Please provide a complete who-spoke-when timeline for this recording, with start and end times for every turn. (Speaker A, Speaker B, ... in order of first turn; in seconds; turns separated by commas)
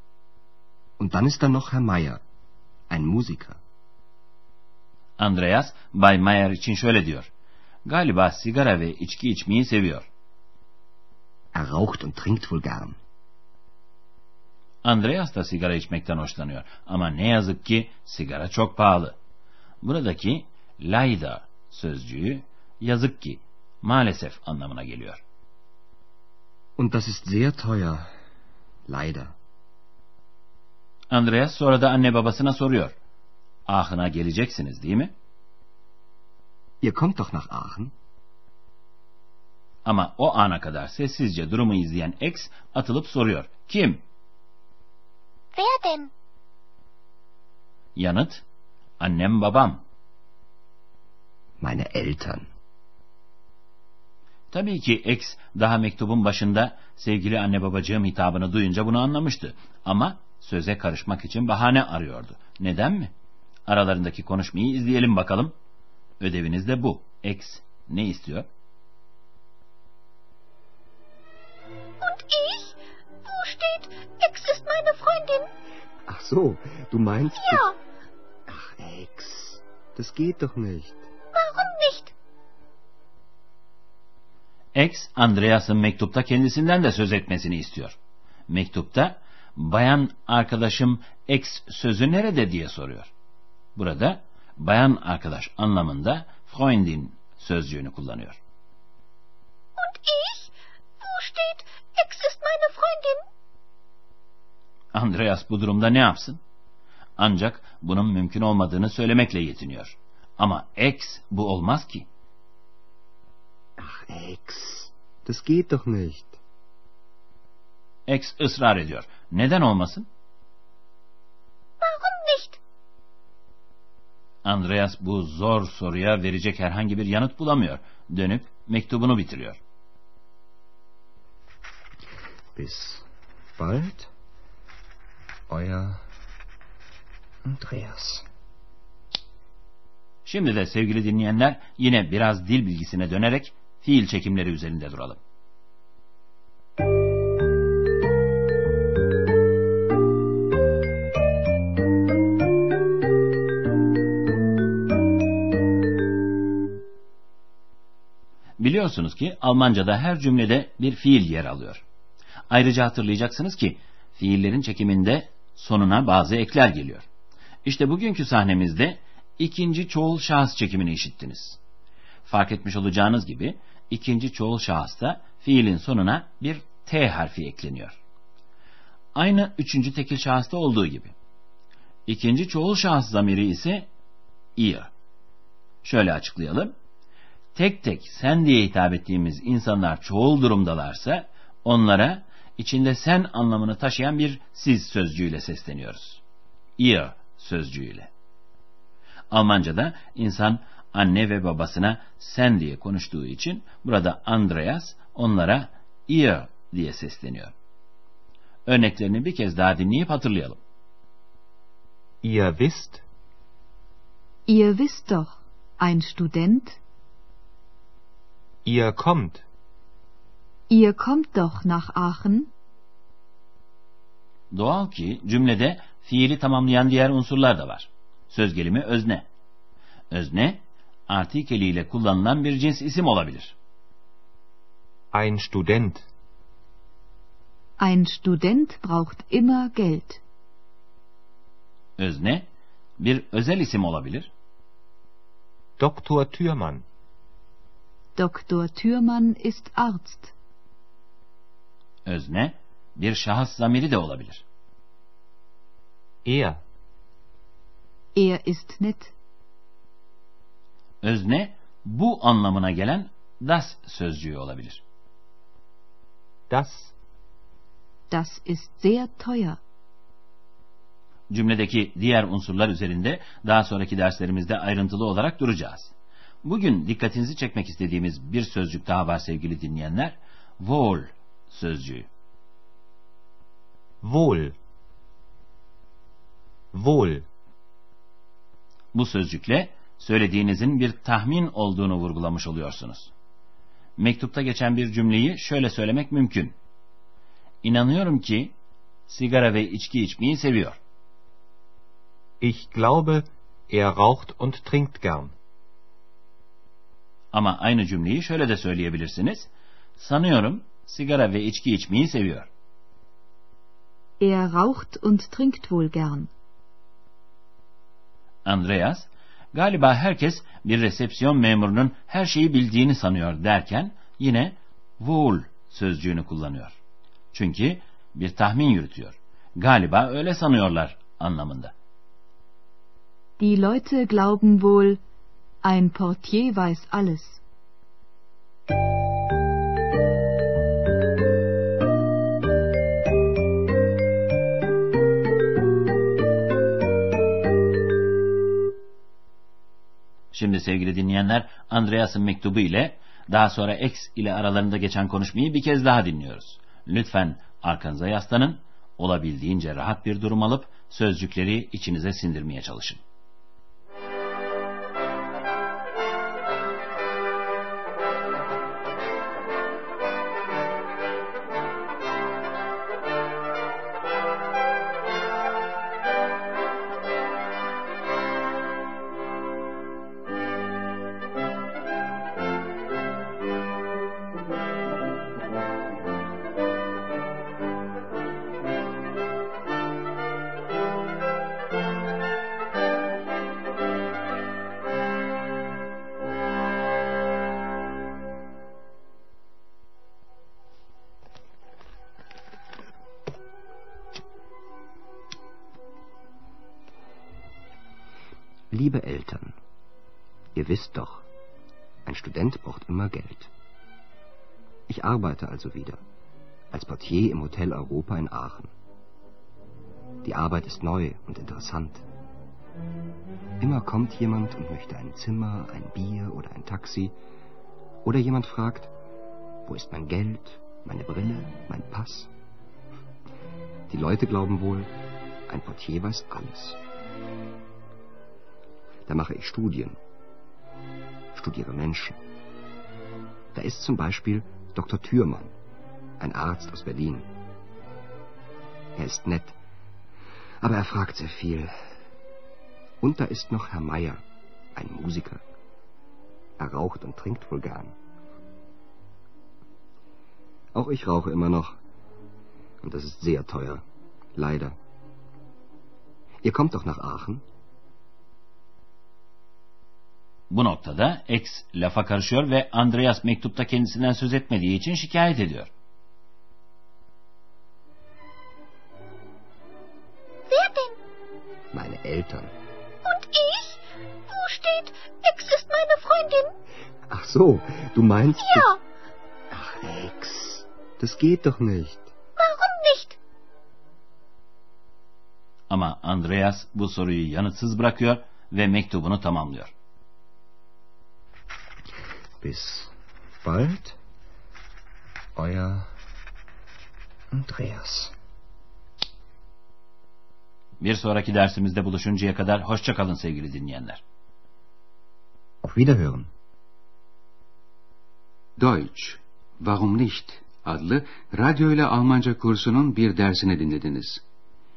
Speaker A: 1.0-2.2, Speaker A: 2.9-3.6, Speaker B: 5.2-7.3, Speaker B: 7.8-10.1, Speaker A: 11.5-13.0, Speaker B: 14.8-19.2, Speaker B: 19.8-25.2, Speaker A: 26.8-28.1, Speaker A: 28.9-29.3, Speaker B: 31.1-33.0, Speaker B: 33.7-35.1, Speaker A: 36.8-37.9, Speaker B: 39.9-44.0, Speaker C: 45.6-46.1, Speaker B: 48.0-48.4, Speaker B: 49.0-49.8, Speaker A: 51.6-52.5, Speaker B: 54.5-63.1, Speaker B: 63.7-65.5, Speaker B: 66.2-68.5, Speaker C: 72.0-75.5, Speaker A: 76.1-77.7, Speaker C: 77.4-77.8, Speaker A: 78.5-81.1, Speaker C: 81.3-82.1, Speaker B: 84.8-88.0, Speaker B: 88.5-93.1, Speaker B: 93.8-98.4, Speaker C: 99.8-103.2, Speaker B: 104.9-106.4, Speaker B: 107.2-112.1, Speaker A: 113.8-116.4, Speaker B: 118.1-120.1, Speaker C: 121.8-122.6, Speaker B: 124.4-129.6, Speaker A: 132.6-133.0, Speaker A: 133.6-134.1, Speaker A: 135.5-136.0, Speaker A: 137.4-138.2, Speaker B: 140.2-145.2, Speaker B: 158.6-161.8, Speaker B: 162.5-167.1, Speaker B: 167.7-171.6, Speaker B: 172.3-178.0, Speaker B: 179.2-181.1, Speaker B: 182.1-183.9, Speaker B: 184.6-184.9, Speaker B: 185.8-186.7, Speaker B: 187.6-196.2, Speaker B: 196.8-198.1, Speaker B: 199.3-207.5, Speaker B: 208.7-210.6, Speaker D: 212.2-213.0, Speaker E: 214.5-216.8, Speaker D: 218.7-219.4, Speaker E: 220.7-222.5, Speaker B: 224.5-229.3, Speaker B: 230.1-233.6, Speaker D: 235.1-236.1, Speaker E: 237.8-240.2, Speaker B: 242.0-242.5, Speaker B: 243.0-244.3, Speaker D: 245.8-246.8, Speaker E: 248.2-250.3, Speaker B: 252.1-254.4, Speaker D: 256.2-256.6, Speaker E: 258.1-259.1, Speaker B: 261.0-264.8, Speaker D: 266.5-266.9, Speaker E: 268.1-269.6, Speaker B: 271.3-275.9, Speaker B: 276.4-282.1, Speaker D: 284.0-284.6, Speaker D: 286.7-287.3, Speaker B: 288.9-293.1, Speaker B: 294.0-296.6, Speaker B: 297.6-298.6, Speaker B: 299.1-300.8, Speaker D: 302.4-305.3, Speaker B: 307.3-312.5, Speaker E: 314.2-316.3, Speaker B: 318.4-326.8, Speaker B: 327.3-331.7, Speaker E: 333.4-335.0, Speaker E: 335.6-337.4, Speaker B: 350.3-363.0, Speaker A: 408.7-409.5, Speaker A: 410.6-411.2, Speaker A: 412.1-413.5, Speaker A: 414.9-416.0, Speaker A: 416.7-418.7, Speaker A: 420.2-422.1, Speaker A: 423.6-427.1, Speaker A: 428.1-428.9, Speaker A: 429.7-432.3, Speaker A: 433.9-434.9, Speaker A: 435.5-436.8, Speaker A: 439.1-440.0, Speaker A: 441.3-442.2, Speaker A: 443.6-445.5, Speaker A: 446.2-447.3, Speaker A: 449.0-449.6, Speaker A: 450.6-451.7, Speaker A: 453.0-454.2, Speaker A: 454.8-455.4, Speaker A: 456.6-457.9, Speaker A: 460.7-461.8, Speaker A: 462.8-463.8, Speaker A: 464.4-464.8, Speaker A: 466.4-467.4, Speaker B: 470.5-475.7, Speaker C: 480.5-481.0, Speaker A: 481.7-482.5, Speaker C: 483.1-486.6, Speaker A: 487.1-488.7, Speaker C: 488.4-488.8, Speaker A: 489.5-492.1, Speaker C: 492.4-493.2, Speaker B: 495.7-499.7, Speaker A: 502.4-502.9, Speaker A: 503.4-504.0, Speaker A: 505.4-505.9, Speaker A: 507.3-508.1, Speaker B: 510.8-514.0, Speaker A: 515.6-516.3, Speaker F: 518.6-524.2